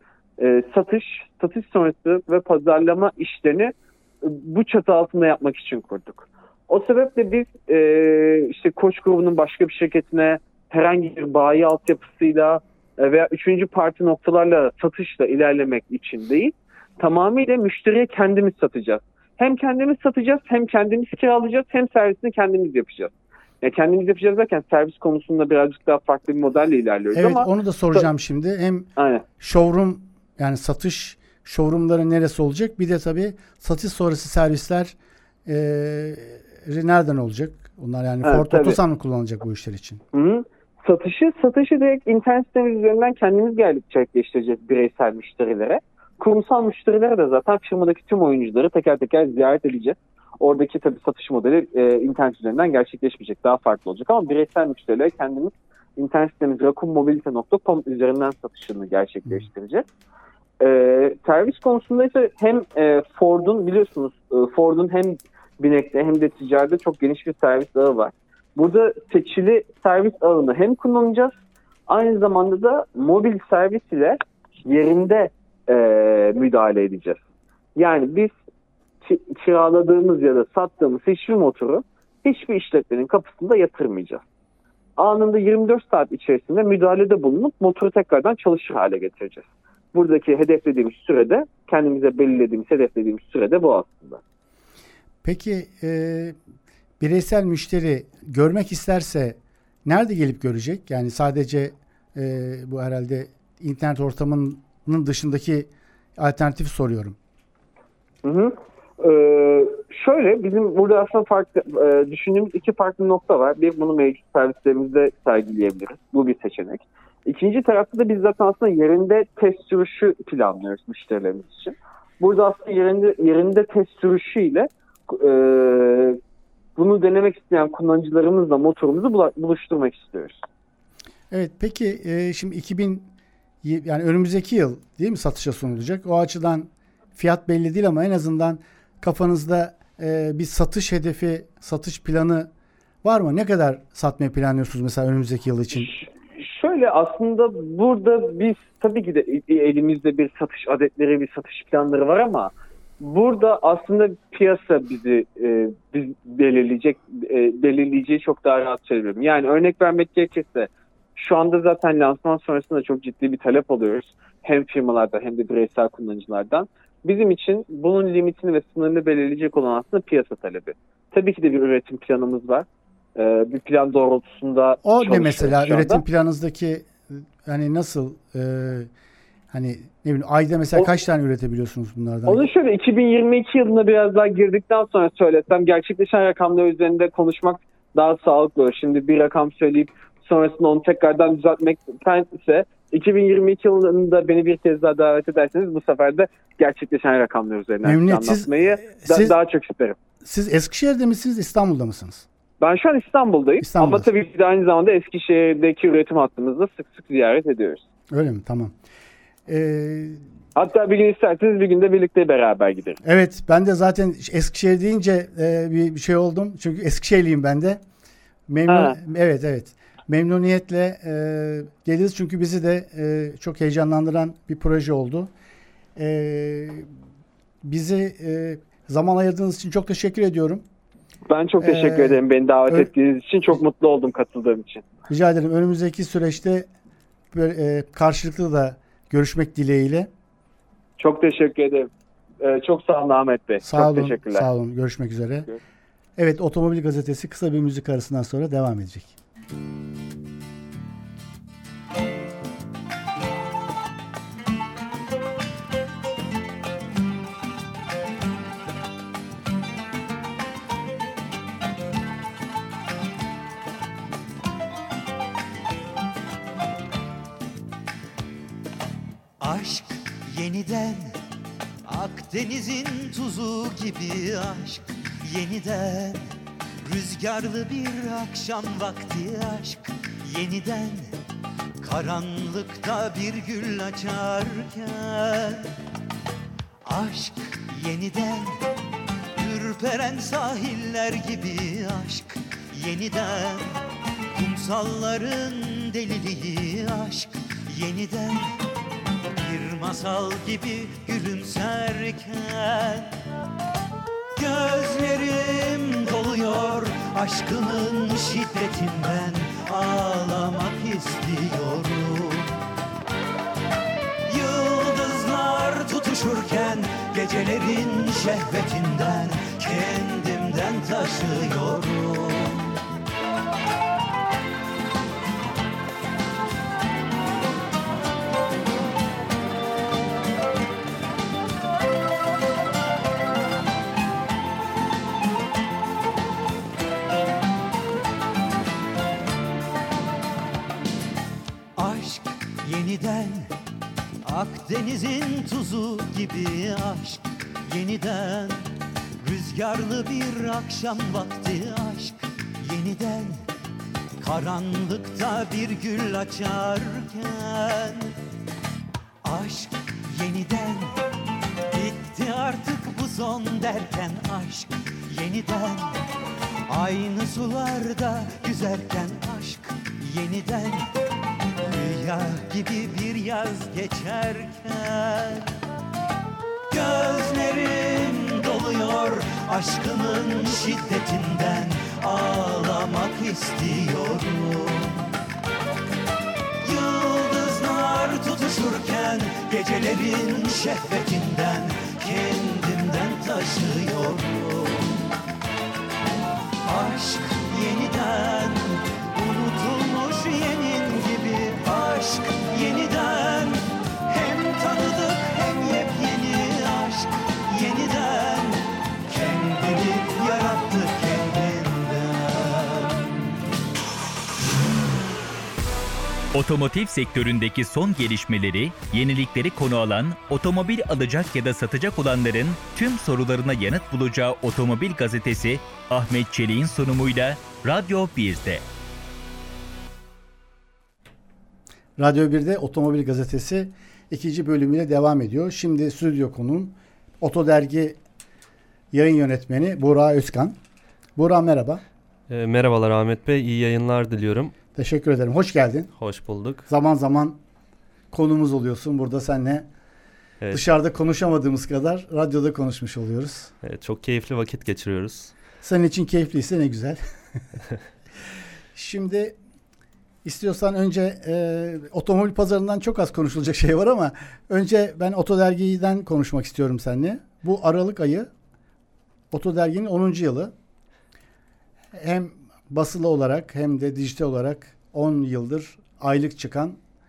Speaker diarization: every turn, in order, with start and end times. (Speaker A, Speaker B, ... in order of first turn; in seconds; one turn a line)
Speaker A: 0.4-28.1
Speaker B: 27.1-28.9
Speaker A: 29.0-29.2
Speaker B: 29.4-34.9
Speaker B: 35.5-40.0
Speaker A: 38.2-38.8
Speaker A: 40.1-59.8
Speaker A: 60.6-71.3
Speaker A: 71.9-77.2
Speaker A: 77.8-78.3
Speaker A: 79.0-84.2
Speaker A: 85.0-94.2
Speaker B: 95.2-96.3
Speaker B: 97.0-107.2
Speaker A: 108.2-126.2
Speaker A: 126.8-130.4
Speaker B: 131.3-133.1
Speaker B: 133.6-142.5
Speaker B: 143.0-145.9
Speaker A: 145.7-176.0
Speaker B: 174.8-178.9
Speaker B: 179.5-182.4
Speaker A: 182.2-199.9
Speaker B: 197.8-199.3
Speaker B: 200.2-202.2
Speaker A: 202.6-207.8
Speaker B: 203.6-204.1
Speaker B: 208.1-208.7
Speaker B: 209.5-210.2
Speaker A: 210.6-213.0
Speaker B: 213.0-217.8
Speaker B: 218.5-225.3
Speaker A: 218.7-219.0
Speaker B: 225.9-226.9
Speaker B: 227.6-230.6
Speaker A: 231.3-234.8
Speaker B: 231.6-232.9
Speaker B: 235.1-236.7
Speaker B: 237.3-240.1
Speaker A: 241.0-241.9
Speaker A: 242.4-244.4
Speaker B: 243.6-245.5
Speaker B: 246.2-249.1
Speaker C: 269.4-271.2
Speaker C: 271.9-276.2
Speaker C: 276.8-281.1
Speaker C: 281.8-285.7
Speaker C: 286.9-288.6
Speaker C: 289.4-293.7
Speaker C: 294.3-298.5
Speaker C: 299.4-303.1
Speaker C: 304.4-312.5
Speaker C: 314.3-322.7
Speaker C: 341.8-343.5
Speaker C: 344.2-348.6
Speaker C: 349.2-353.4
Speaker C: 354.2-358.0
Speaker C: 359.2-360.9
Speaker C: 361.7-365.9
Speaker C: 366.7-370.9
Speaker C: 371.6-375.4
Speaker C: 376.7-385.0
Speaker C: 386.6-394.8
Speaker C: 396.7-408.5
Speaker C: 409.1-412.9
Speaker D: 416.3-428.6
Speaker B: 432.0-438.0
Speaker B: 438.9-440.6
Speaker B: 441.1-441.8
Speaker E: 442.3-444.5
Speaker B: 444.8-445.9
Speaker E: 446.0-446.7
Speaker B: 446.7-447.4
Speaker B: 448.1-449.7
Speaker B: 450.5-453.5
Speaker E: 453.6-455.3
Speaker B: 455.6-457.0
Speaker B: 458.7-459.4
Speaker B: 460.2-468.3
Speaker B: 469.3-470.5
Speaker B: 471.9-476.8